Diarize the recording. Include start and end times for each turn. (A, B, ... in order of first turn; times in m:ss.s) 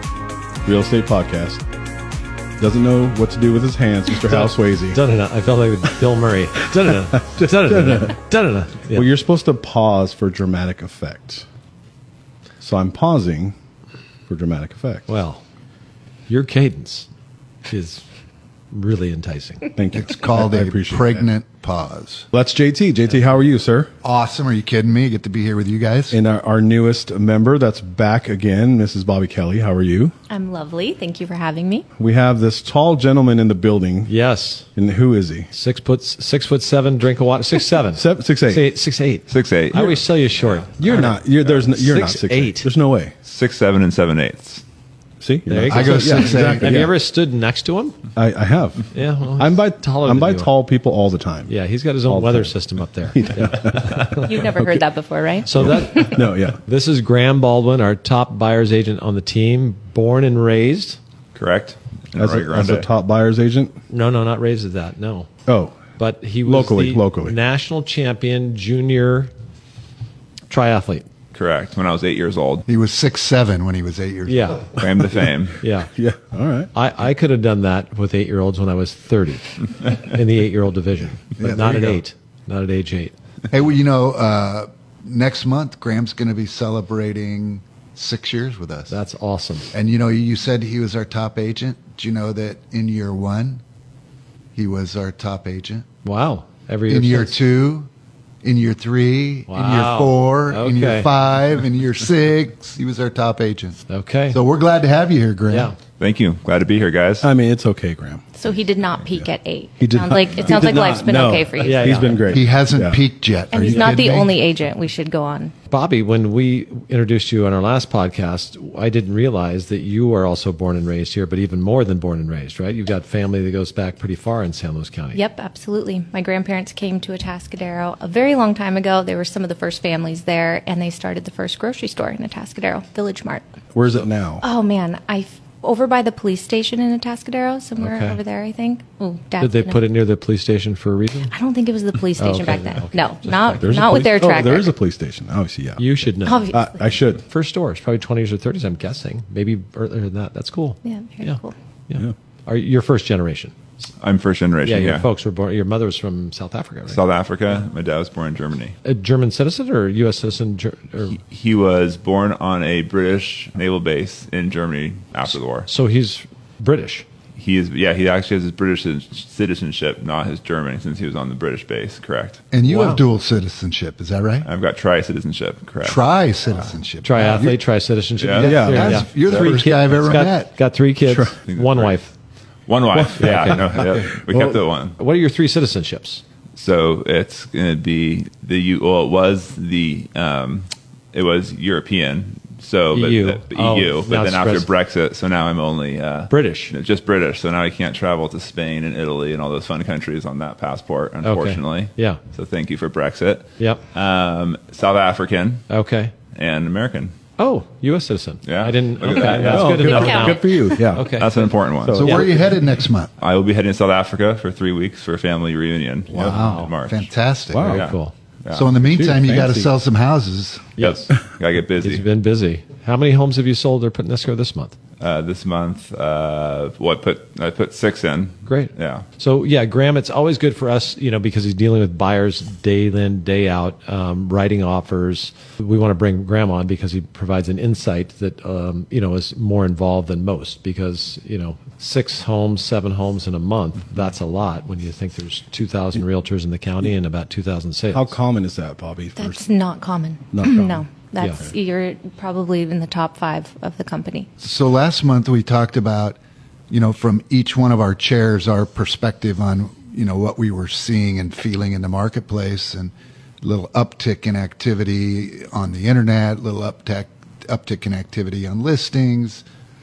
0:00.6-0:01.6 A
0:02.6-0:05.0 A
0:04.3-0:09.1 B
0:07.2-0:08.1 A
0:08.9-0:11.4 A
0:12.6-0:13.5 A
0:14.3-0:15.1 A
0:15.1-0:15.4 B
0:16.3-0:17.1 B
0:17.7-0:18.0 B
0:18.7-0:19.7 B
0:19.8-0:21.2 A
0:19.9-0:22.3 C
0:22.3-0:23.9 A
0:24.0-0:26.2 C
0:26.1-0:30.1 A
0:30.3-0:31.9 D
0:32.0-0:34.1 A
0:34.1-0:34.7 B
0:34.7-0:35.5 A
0:35.5-0:42.7 B
0:38.0-0:38.6 A
0:39.3-0:40.0 E
0:40.8-0:43.1 A
0:43.2-0:44.6 E
0:45.2-0:47.0 A
0:45.5-0:48.0 B
0:45.7-0:46.9 C
0:48.2-0:51.5 A
0:48.9-0:50.5 B
0:51.5-0:54.3 B
0:52.1-0:52.5 A
0:53.1-0:54.8 A
0:54.2-0:56.3 D
0:55.4-1:01.0 B
0:55.6-0:56.6 A
1:01.3-1:02.9 E
1:02.2-1:03.8 A
1:03.9-1:05.3 B
1:05.5-1:05.8 A
1:06.0-1:09.3 B
1:06.4-1:07.4 A
1:10.5-1:11.0 B
1:11.3-1:12.6 E
1:12.7-1:14.6 C
1:14.3-1:14.8 B
1:14.8-1:15.6 E
1:15.6-1:15.9 B
1:15.9-1:16.7 A
1:16.7-1:23.1 B
1:21.4-1:22.0 C
1:23.5-1:29.0 C
1:28.9-1:29.7 B
1:29.7-1:33.6 C
1:34.5-1:35.8 C
1:36.0-1:37.4 B
1:36.9-1:37.9 C
1:38.4-1:45.7 C
1:39.5-1:41.1 B
1:43.9-1:44.4 B
1:45.5-1:45.8 B
1:46.0-1:47.3 E
1:47.2-1:48.2 A
1:48.4-1:52.2 D
1:49.8-1:53.0 A
1:51.6-1:52.3 B
1:52.3-1:54.4 C
1:53.5-1:55.5 D
1:53.6-1:54.2 A
1:55.7-2:05.2 B
2:05.1-2:13.4 D
2:13.7-2:14.4 A
2:14.4-2:19.8 D
2:17.8-2:18.2 B
2:19.4-2:21.3 B
2:21.3-2:24.7 D
2:22.2-2:23.9 B
2:23.6-2:27.2 A
2:25.8-2:26.5 B
2:26.2-2:26.9 D
2:27.2-2:33.5 B
2:30.8-2:31.5 D
2:34.0-2:35.0 E
2:34.6-2:37.0 B
2:36.9-2:38.8 E
2:38.8-2:41.2 B
2:41.2-2:45.7 E
2:45.3-2:47.0 B
2:47.4-2:52.4 E
2:52.5-2:54.5 C
2:52.6-2:53.0 B
2:54.4-2:56.0 E
2:55.8-2:57.6 C
2:57.0-3:02.1 B
2:58.2-2:58.6 E
2:58.4-2:59.6 A
2:58.6-3:00.5 C
3:01.1-3:01.3 A
3:01.4-3:02.0 E
3:02.7-3:05.0 E
3:02.9-3:04.6 A
3:03.2-3:03.8 B
3:05.0-3:06.2 B
3:06.6-3:25.7 E
3:12.9-3:14.7 B
3:16.3-3:16.7 B
3:21.2-3:22.2 B
3:25.7-3:26.1 B
3:26.3-3:27.1 E
3:27.4-3:31.3 B
3:28.4-3:30.0 E
3:29.3-3:31.2 A
3:29.9-3:30.6 D
3:31.2-3:32.1 E
3:31.8-3:32.5 A
3:32.0-3:33.1 C
3:33.2-3:37.1 E
3:36.1-3:37.8 C
3:36.2-3:36.7 B
3:37.5-3:37.8 A
3:37.6-3:38.1 B
3:37.7-3:38.7 E
3:38.5-3:40.7 C
3:38.9-3:39.7 A
3:40.8-3:41.1 B
3:40.8-3:42.0 E
3:41.8-3:44.7 B
3:45.0-3:49.0 E
3:48.4-4:08.2 B
4:07.9-4:09.4 A
4:09.2-4:14.3 D
4:10.3-4:10.8 A
4:11.2-4:11.5 B
4:14.4-4:16.2 C
4:16.7-4:29.4 C